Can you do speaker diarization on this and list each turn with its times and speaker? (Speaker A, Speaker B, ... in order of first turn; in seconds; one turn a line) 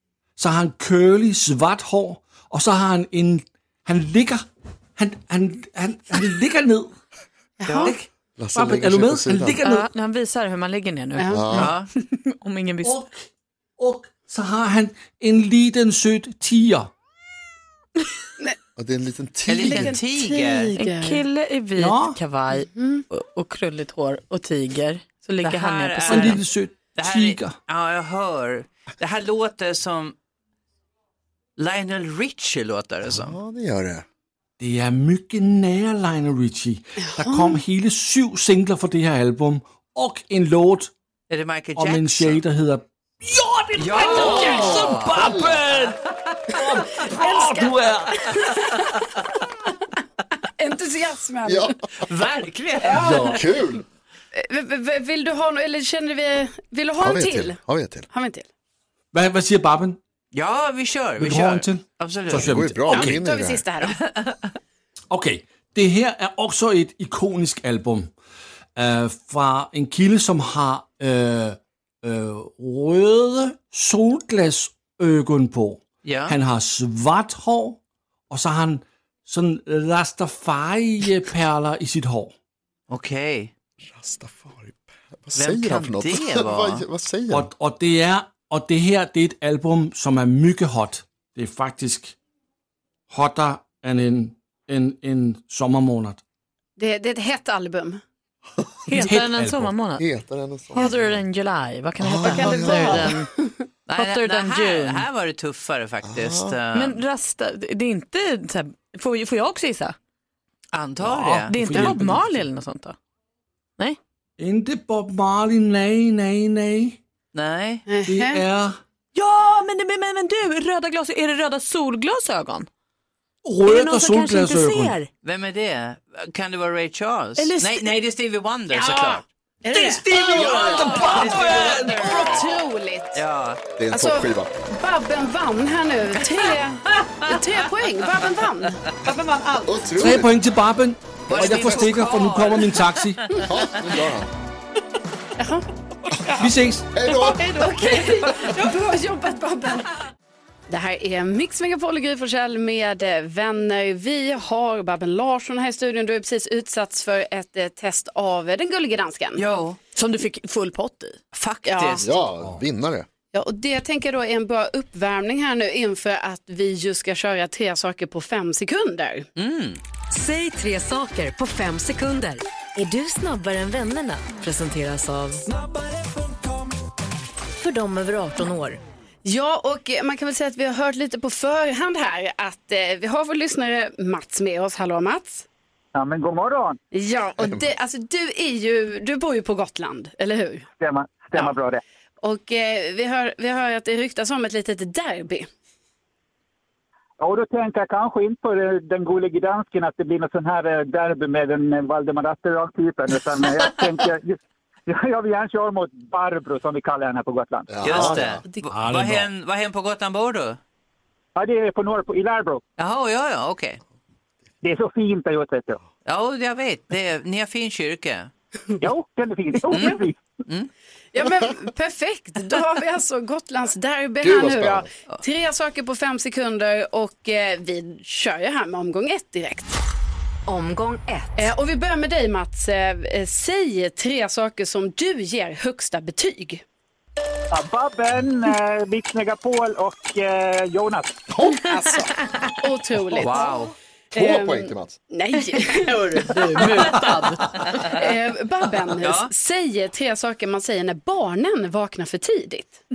Speaker A: 0.4-6.9
Speaker B: 7.6-8.0
Speaker C: 7.7-8.1
Speaker D: 8.4-9.6
Speaker A: 8.5-9.9
Speaker E: 9.6-13.0
Speaker B: 11.2-11.7
Speaker D: 11.3-11.7
Speaker C: 11.6-11.9
Speaker A: 12.8-13.3
Speaker A: 13.8-16.9
Speaker D: 18.8-20.0
Speaker C: 19.5-20.7
Speaker B: 19.6-21.2
Speaker E: 20.8-26.4
Speaker A: 21.8-22.2
Speaker B: 22.6-23.0
Speaker C: 25.4-26.4
Speaker A: 26.1-27.6
Speaker C: 26.9-30.1
Speaker C: 31.6-33.4
Speaker D: 33.1-34.0
Speaker A: 34.6-40.9
Speaker B: 37.2-37.6
Speaker C: 41.3-42.4
Speaker A: 41.8-46.0
Speaker C: 43.8-45.3
Speaker D: 44.1-45.6
Speaker A: 46.5-48.6
Speaker B: 47.1-48.9
Speaker B: 50.6-51.8
Speaker D: 51.5-51.8
Speaker C: 52.1-53.0
Speaker B: 52.8-53.4
Speaker A: 53.0-53.4
Speaker D: 53.2-53.8
Speaker B: 54.3-57.6
Speaker D: 57.0-58.1
Speaker B: 58.1-58.5
Speaker A: 59.1-60.0
Speaker C: 60.3-62.5
Speaker A: 61.2-63.2
Speaker D: 62.3-63.6
Speaker B: 62.9-64.0
Speaker A: 65.1-68.1
Speaker A: 68.8-77.8
Speaker C: 76.0-76.3
Speaker A: 78.3-82.3
Speaker C: 82.9-83.5
Speaker D: 83.8-87.5
Speaker C: 85.3-86.8
Speaker A: 87.3-92.2
Speaker A: 93.1-96.2
Speaker B: 96.8-98.0
Speaker E: 98.9-100.0
Speaker A: 99.0-99.7
Speaker D: 100.0-101.1
Speaker E: 100.7-103.3
Speaker D: 102.0-103.1
Speaker B: 102.2-103.5
Speaker E: 103.9-105.0
Speaker C: 103.9-107.0
Speaker D: 106.0-106.6
Speaker E: 106.7-110.0
Speaker C: 110.7-112.0
Speaker E: 111.5-113.0
Speaker A: 111.5-112.4
Speaker A: 114.4-117.0
Speaker C: 117.3-117.8
Speaker B: 117.9-118.4
Speaker A: 118.1-118.8
Speaker E: 119.1-122.7
Speaker A: 123.5-125.0
Speaker E: 123.7-125.1
Speaker C: 125.2-129.2
Speaker E: 127.4-127.9
Speaker B: 128.7-133.2
Speaker A: 129.7-132.4
Speaker C: 130.3-132.4
Speaker C: 133.2-133.6
Speaker D: 133.8-134.5
Speaker B: 133.9-138.8
Speaker E: 139.1-139.7
Speaker D: 139.7-140.3
Speaker A: 140.0-143.2
Speaker C: 141.3-142.8
Speaker D: 141.3-141.6
Speaker D: 143.5-144.3
Speaker B: 145.4-145.7
Speaker A: 146.4-146.9
Speaker D: 146.9-147.5
Speaker B: 147.1-149.9
Speaker B: 150.7-159.4
Speaker C: 159.4-159.8
Speaker E: 160.0-161.2
Speaker C: 161.3-162.1
Speaker B: 161.7-162.1
Speaker D: 162.0-163.1
Speaker B: 163.3-169.3
Speaker C: 169.4-169.8
Speaker F: 170.1-175.4
Speaker F: 177.6-178.8
Speaker B: 179.2-185.5
Speaker G: 185.9-186.8
Speaker B: 186.9-190.7
Speaker D: 187.4-187.7
Speaker G: 190.8-191.8
Speaker B: 192.2-195.5
Speaker G: 197.2-207.8
Speaker D: 207.7-208.4
Speaker C: 207.8-210.6
Speaker A: 208.7-209.3
Speaker G: 211.4-212.6
Speaker C: 212.8-213.8
Speaker G: 214.6-215.8
Speaker C: 216.1-218.3
Speaker G: 218.8-220.2
Speaker B: 221.1-229.7
Speaker D: 224.2-224.9
Speaker F: 230.5-231.5
Speaker B: 231.4-236.6
Speaker G: 237.5-241.2
Speaker D: 241.3-242.0
Speaker B: 241.5-242.1
Speaker B: 242.6-243.5
Speaker C: 243.2-243.7
Speaker D: 244.1-245.0
Speaker B: 244.1-246.8
Speaker E: 245.9-247.6
Speaker B: 247.9-252.8
Speaker C: 249.0-249.3